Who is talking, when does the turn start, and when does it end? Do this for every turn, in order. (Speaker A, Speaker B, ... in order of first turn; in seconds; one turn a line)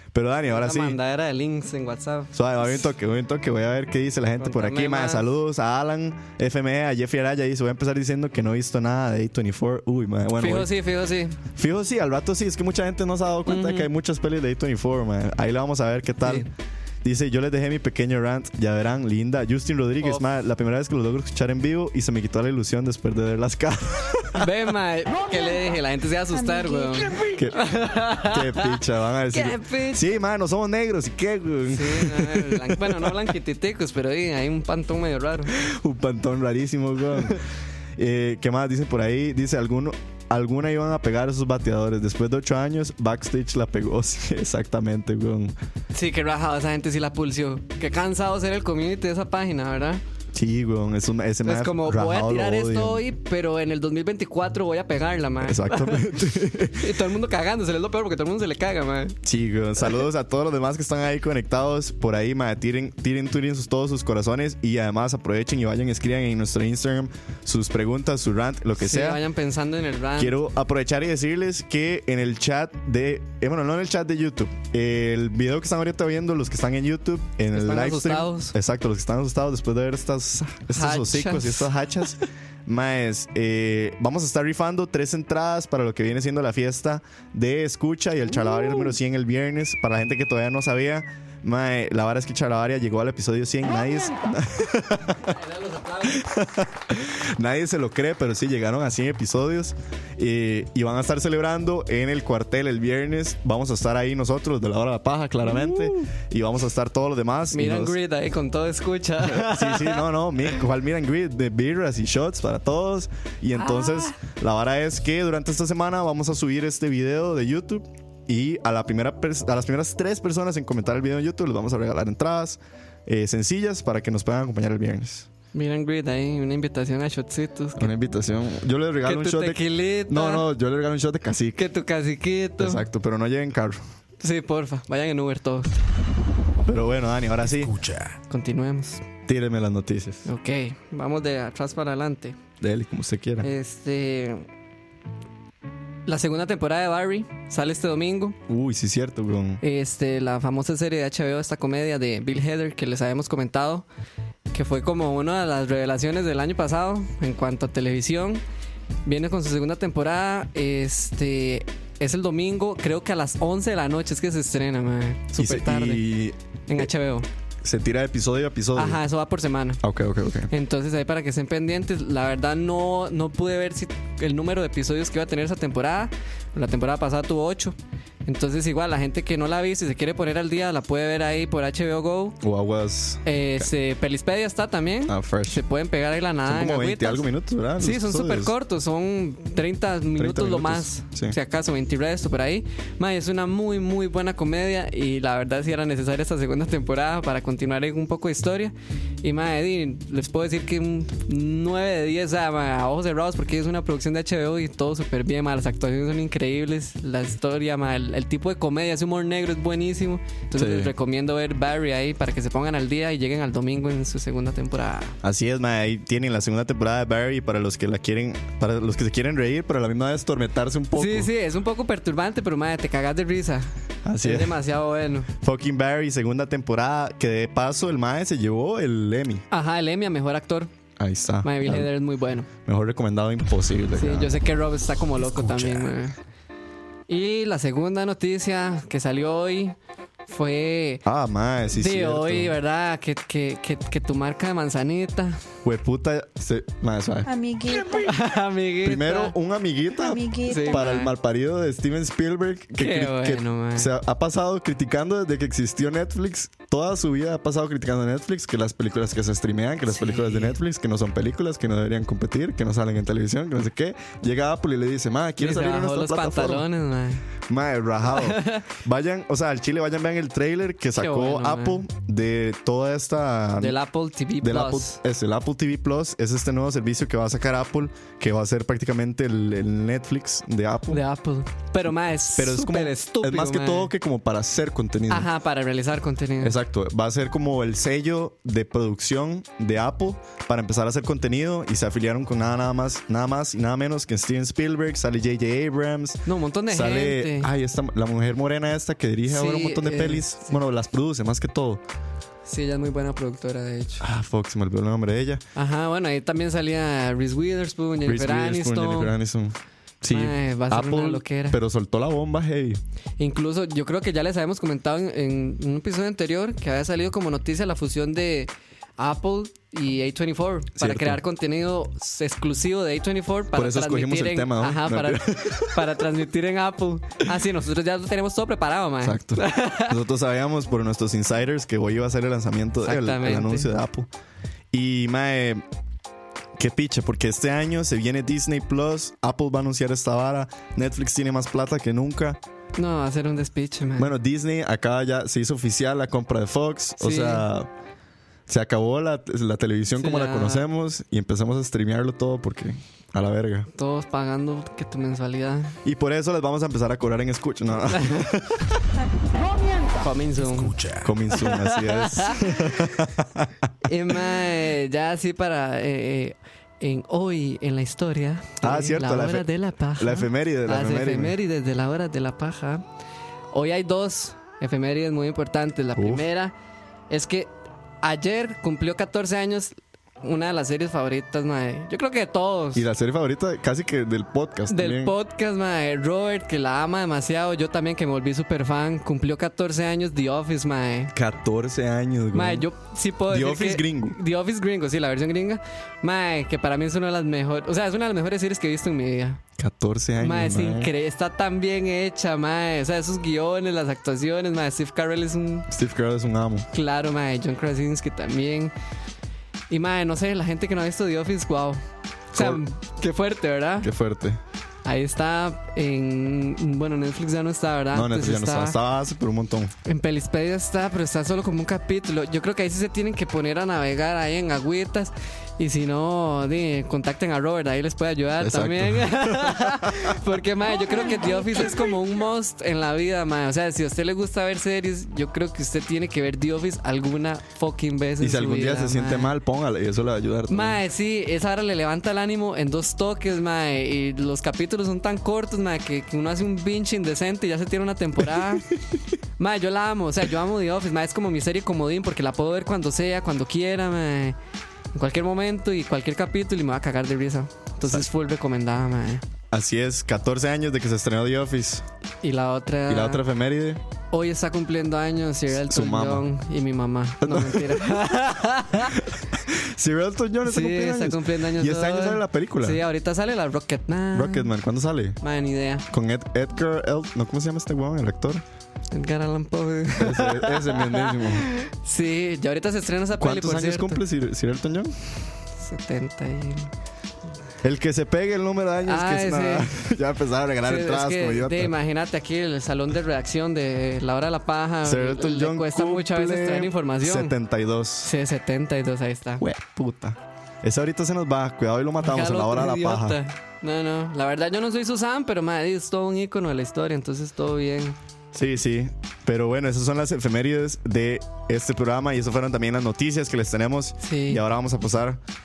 Speaker A: 0.1-1.0
Speaker B: 0.5-2.8
Speaker A: 2.3-10.7
Speaker B: 4.4-5.2
Speaker B: 10.4-11.4
Speaker A: 11.6-16.5
Speaker B: 13.5-13.9
Speaker A: 17.0-24.5
Speaker B: 24.4-30.0
Speaker C: 26.4-27.3
Speaker A: 27.4-33.3
Speaker B: 31.7-35.5
Speaker A: 35.5-37.4
Speaker A: 38.0-45.5
Speaker B: 45.9-50.0
Speaker A: 50.3-53.0
Speaker B: 51.4-56.1
Speaker A: 55.4-57.0
Speaker B: 56.7-59.2
Speaker A: 59.2-69.2
Speaker B: 68.8-70.4
Speaker A: 70.2-95.3
Speaker B: 77.5-78.5
Speaker B: 80.7-81.7
Speaker B: 88.4-88.9
Speaker B: 95.3-96.3
Speaker A: 96.0-107.9
Speaker B: 105.4-106.1
Speaker B: 107.5-110.1
Speaker A: 109.2-125.3
Speaker B: 113.5-114.2
Speaker B: 125.5-127.9
Speaker A: 127.8-131.6
Speaker B: 129.0-130.5
Speaker B: 131.6-132.8
Speaker A: 132.6-133.8
Speaker B: 134.2-135.7
Speaker A: 136.6-137.7
Speaker D: 137.4-138.2
Speaker B: 138.3-139.0
Speaker A: 139.3-140.2
Speaker B: 140.2-142.4
Speaker A: 142.6-143.5
Speaker B: 143.4-144.5
Speaker B: 146.1-148.4
Speaker A: 148.5-149.6
Speaker B: 149.6-153.9
Speaker B: 154.5-158.4
Speaker B: 159.0-166.1
Speaker A: 165.3-166.9
Speaker B: 166.7-167.3
Speaker A: 167.6-169.0
Speaker B: 168.7-169.8
Speaker A: 169.8-170.5
Speaker B: 170.5-182.4
Speaker A: 182.4-183.7
Speaker B: 183.2-187.2
Speaker A: 185.1-185.6
Speaker A: 186.4-188.5
Speaker B: 187.8-215.2
Speaker A: 190.2-191.3
Speaker A: 210.5-210.9
Speaker A: 215.2-221.3
Speaker B: 220.9-225.3
Speaker A: 224.0-224.6
Speaker A: 225.4-229.4
Speaker B: 229.5-230.7
Speaker A: 231.0-231.9
Speaker B: 231.4-232.5
Speaker A: 232.6-234.4
Speaker B: 233.9-236.2
Speaker D: 235.2-235.9
Speaker B: 237.1-241.0
Speaker A: 241.0-242.6
Speaker B: 241.7-245.4
Speaker A: 245.6-247.3
Speaker C: 247.2-248.1
Speaker B: 248.0-249.3
Speaker A: 248.8-266.7
Speaker C: 250.0-250.8
Speaker B: 250.4-251.1
Speaker B: 252.8-253.9
Speaker B: 259.9-260.6
Speaker B: 265.4-267.2
Speaker A: 267.5-273.8
Speaker B: 268.1-268.6
Speaker B: 271.0-271.8
Speaker B: 273.6-275.0
Speaker A: 274.4-281.0
Speaker B: 280.9-283.9
Speaker A: 282.3-285.3
Speaker B: 285.1-286.5
Speaker A: 286.4-301.8
Speaker B: 296.2-297.5
Speaker B: 299.3-300.6
Speaker B: 302.4-304.0
Speaker A: 304.0-305.4
Speaker B: 305.5-309.1
Speaker A: 308.0-312.8
Speaker B: 310.1-311.6
Speaker B: 313.2-329.9
Speaker A: 320.8-321.2
Speaker A: 323.5-325.9
Speaker A: 329.0-334.1
Speaker B: 332.8-333.7
Speaker A: 334.7-335.6
Speaker A: 336.6-342.4
Speaker B: 342.8-344.1
Speaker A: 344.0-347.7
Speaker B: 347.0-347.4
Speaker A: 348.5-353.7
Speaker B: 350.0-350.6
Speaker B: 353.7-355.7
Speaker A: 355.8-358.8
Speaker B: 357.9-358.2
Speaker B: 360.0-360.8
Speaker D: 360.4-361.1
Speaker A: 361.0-363.7
Speaker B: 361.3-362.5
Speaker B: 363.9-372.8
Speaker A: 368.6-371.3
Speaker B: 373.5-376.5
Speaker A: 375.9-376.2
Speaker B: 377.1-377.5
Speaker B: 378.0-382.9
Speaker A: 382.7-385.1
Speaker B: 384.7-391.1
Speaker A: 391.1-392.7
Speaker B: 392.3-399.4
Speaker A: 393.3-394.2
Speaker A: 399.6-400.9
Speaker B: 400.2-405.7
Speaker A: 405.7-406.7
Speaker B: 406.7-408.7
Speaker B: 409.7-411.8
Speaker B: 412.3-413.9
Speaker A: 412.3-412.6
Speaker A: 413.8-414.4
Speaker B: 414.8-418.8
Speaker A: 417.9-419.7
Speaker B: 419.8-439.3
Speaker A: 428.4-430.2
Speaker A: 438.2-440.8
Speaker B: 440.5-448.6
Speaker B: 449.4-454.3
Speaker B: 454.9-459.2
Speaker A: 459.5-461.8
Speaker B: 462.2-463.2
Speaker A: 462.9-463.8
Speaker B: 464.1-469.0
Speaker A: 465.5-466.3
Speaker A: 467.2-468.1
Speaker A: 468.8-472.8
Speaker B: 470.4-474.5
Speaker A: 474.1-475.2
Speaker B: 475.2-475.9
Speaker A: 475.9-478.4
Speaker B: 478.9-484.0
Speaker A: 479.9-481.5
Speaker A: 483.1-485.3
Speaker B: 485.6-486.7
Speaker A: 487.6-491.7
Speaker B: 488.9-489.7
Speaker B: 490.6-497.3
Speaker A: 494.8-498.1
Speaker B: 498.0-499.4
Speaker A: 499.4-503.2
Speaker B: 502.0-508.0
Speaker A: 508.3-515.2
Speaker B: 514.0-514.4